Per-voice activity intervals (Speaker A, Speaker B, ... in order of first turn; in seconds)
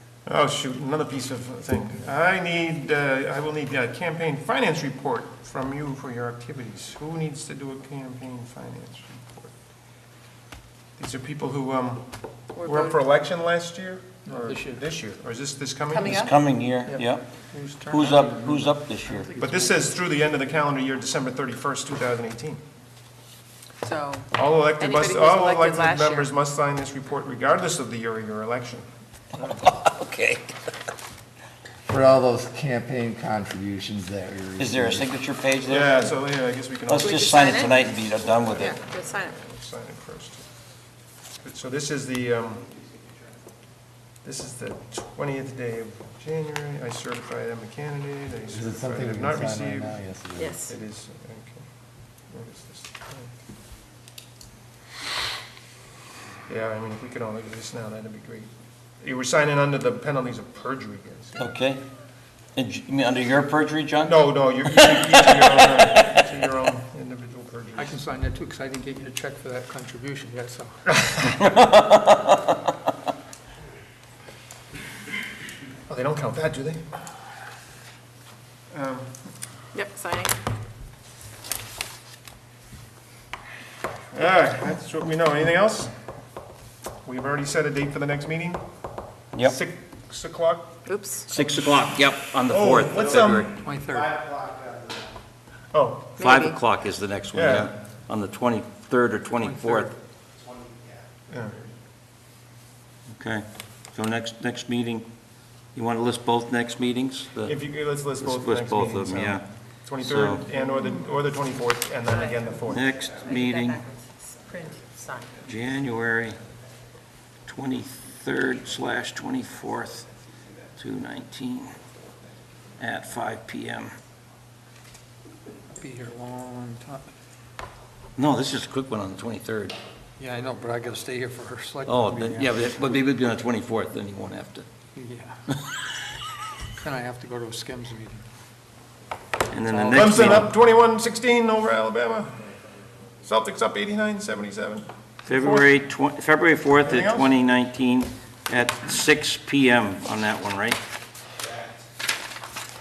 Speaker A: 0.3-9.5, 11.0-12.1, 12.6-16.2, 19.4-22.6, 24.4-29.6, 35.7-37.9, 38.5-40.5, 41.4-42.7, 44.2-50.0, 50.7-51.6, 52.3-53.3, 56.5-58.5, 59.0-61.5, 64.0-68.0, 70.9-71.2, 75.9-76.8, 78.7-79.1, 84.1-85.9, 87.0-88.6, 89.4-90.8, 92.5-93.5, 95.7-96.2, 97.3-97.7, 101.3-101.6, 107.5-113.0, 139.9-142.3, 143.2-145.7, 146.8-147.3
Speaker B: 12.6-13.1, 15.9-16.4, 23.8-26.4, 37.0-38.0, 38.6-39.4, 50.4-50.8, 79.7-80.3, 90.8-91.3, 96.2-96.6, 112.1-112.7, 113.2-115.4
Speaker C: 14.3-14.8, 16.8-20.0, 67.8-70.8, 93.6-94.1, 99.4-99.9, 125.8-127.1, 130.2-132.8, 135.0-135.3, 136.8-138.2, 139.6-140.4
Speaker D: 16.0-17.3, 17.9-19.3, 29.5-30.5, 34.6-36.2, 36.9-38.8, 61.4-61.8, 62.5-66.2, 71.2-72.5, 89.3-89.6, 91.3-93.6, 96.2-99.9, 103.1-105.1, 105.8-107.6, 108.2-109.5, 110.0-110.5, 112.7-113.8, 115.4-116.4, 117.5-120.1, 120.8-121.8, 122.8-124.0, 128.2-129.8, 131.8-134.7, 139.5-140.5, 145.2-150.8
Speaker E: 31.9-35.1, 48.5-50.6, 93.9-95.1, 100.5-101.0